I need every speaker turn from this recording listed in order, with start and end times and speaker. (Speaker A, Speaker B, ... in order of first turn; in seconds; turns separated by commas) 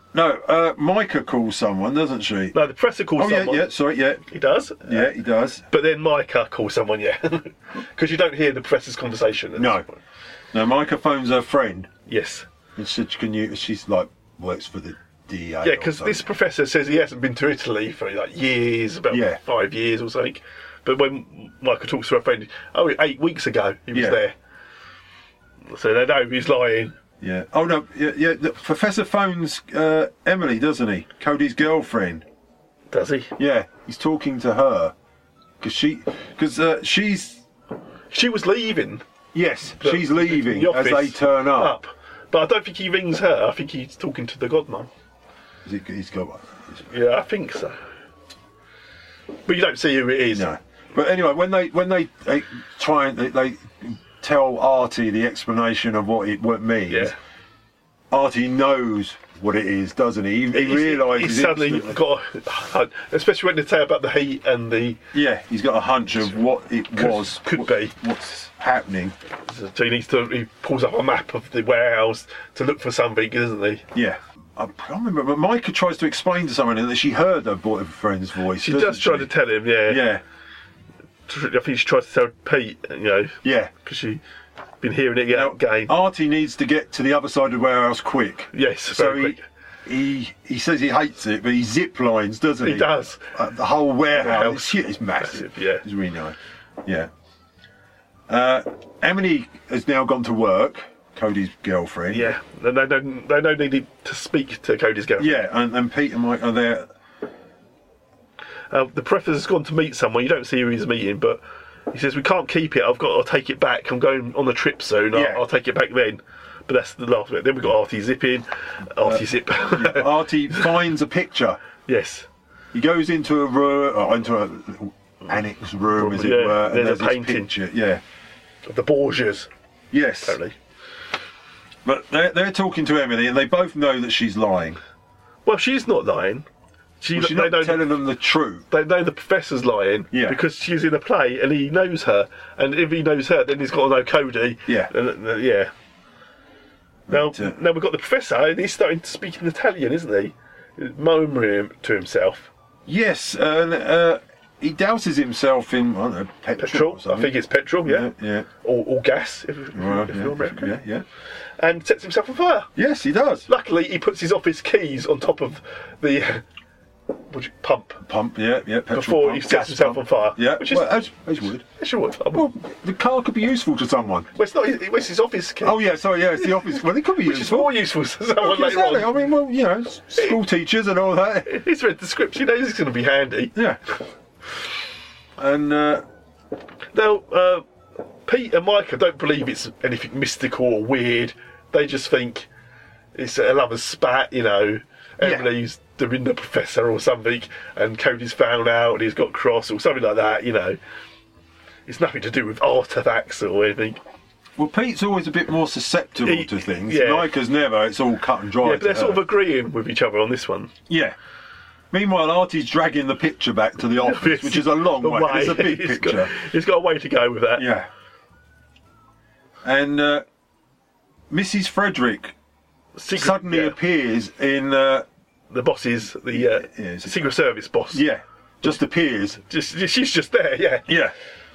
Speaker A: 0.1-2.6, Speaker B: 2.5-3.7, Speaker A: 3.2-4.2, Speaker B: 4.3-5.1, Speaker A: 4.8-5.6, Speaker B: 5.7-10.0, Speaker A: 9.6-9.8, Speaker A: 10.5-11.9, Speaker B: 12.1-12.5, Speaker A: 12.8-16.3, Speaker B: 15.6-24.3, Speaker A: 19.1-19.4, Speaker A: 23.9-24.2, Speaker B: 25.7-26.9, Speaker A: 27.2-32.2, Speaker B: 32.9-33.3, Speaker A: 33.4-34.9, Speaker A: 35.6-37.4, Speaker B: 38.1-39.0, Speaker A: 39.3-41.8, Speaker B: 39.8-44.9, Speaker A: 45.6-46.9, Speaker B: 46.9-47.8, Speaker B: 49.5-50.5, Speaker A: 50.3-57.1, Speaker B: 56.9-57.1, Speaker A: 58.1-62.0, Speaker B: 60.5-65.0, Speaker A: 65.1-69.2, Speaker B: 66.9-67.9, Speaker B: 69.5-73.9, Speaker A: 73.9-79.3, Speaker B: 78.6-80.0, Speaker A: 79.9-80.2, Speaker B: 81.3-84.2, Speaker A: 83.4-83.7, Speaker B: 84.8-85.9, Speaker A: 85.3-97.1, Speaker B: 88.5-89.4, Speaker B: 92.6-93.3, Speaker B: 94.1-95.8, Speaker A: 98.3-102.3, Speaker B: 102.1-105.5, Speaker A: 105.2-106.9, Speaker B: 108.7-120.7, Speaker A: 115.1-115.4, Speaker A: 119.0-121.6, Speaker B: 121.9-122.3, Speaker A: 122.7-128.0, Speaker B: 126.0-127.5, Speaker B: 128.7-129.5, Speaker A: 129.9-130.4, Speaker B: 130.2-130.6, Speaker A: 131.8-134.8, Speaker B: 135.4-136.5, Speaker B: 137.0-137.9, Speaker A: 137.2-138.7, Speaker B: 138.7-145.7, Speaker A: 140.1-140.4, Speaker A: 144.7-144.9, Speaker A: 147.1-147.6, Speaker B: 147.1-152.5, Speaker A: 152.9-158.5, Speaker B: 156.6-158.1, Speaker B: 158.6-160.8, Speaker A: 159.7-161.1, Speaker B: 161.6-162.7, Speaker A: 162.8-163.5, Speaker B: 163.5-166.4, Speaker B: 167.3-168.0, Speaker A: 168.0-171.6, Speaker B: 168.9-171.0, Speaker B: 171.8-172.5, Speaker A: 172.3-174.3, Speaker B: 174.4-175.8, Speaker A: 175.6-177.7, Speaker B: 176.4-179.2, Speaker A: 178.4-181.5, Speaker B: 181.5-183.5, Speaker A: 185.4-186.0, Speaker B: 186.9-187.6, Speaker B: 188.3-192.5, Speaker B: 193.2-200.8, Speaker A: 195.2-195.5, Speaker B: 201.9-204.0, Speaker A: 204.6-209.2, Speaker B: 206.2-207.3, Speaker B: 208.6-210.7, Speaker A: 210.9-211.2, Speaker A: 211.9-216.3, Speaker B: 214.0-217.7, Speaker A: 217.6-217.9, Speaker A: 219.6-220.2, Speaker A: 221.3-222.3, Speaker B: 223.0-223.8, Speaker A: 223.1-225.1, Speaker B: 225.5-228.0, Speaker A: 226.3-227.3, Speaker A: 227.9-229.4, Speaker B: 229.5-230.9, Speaker A: 230.9-231.1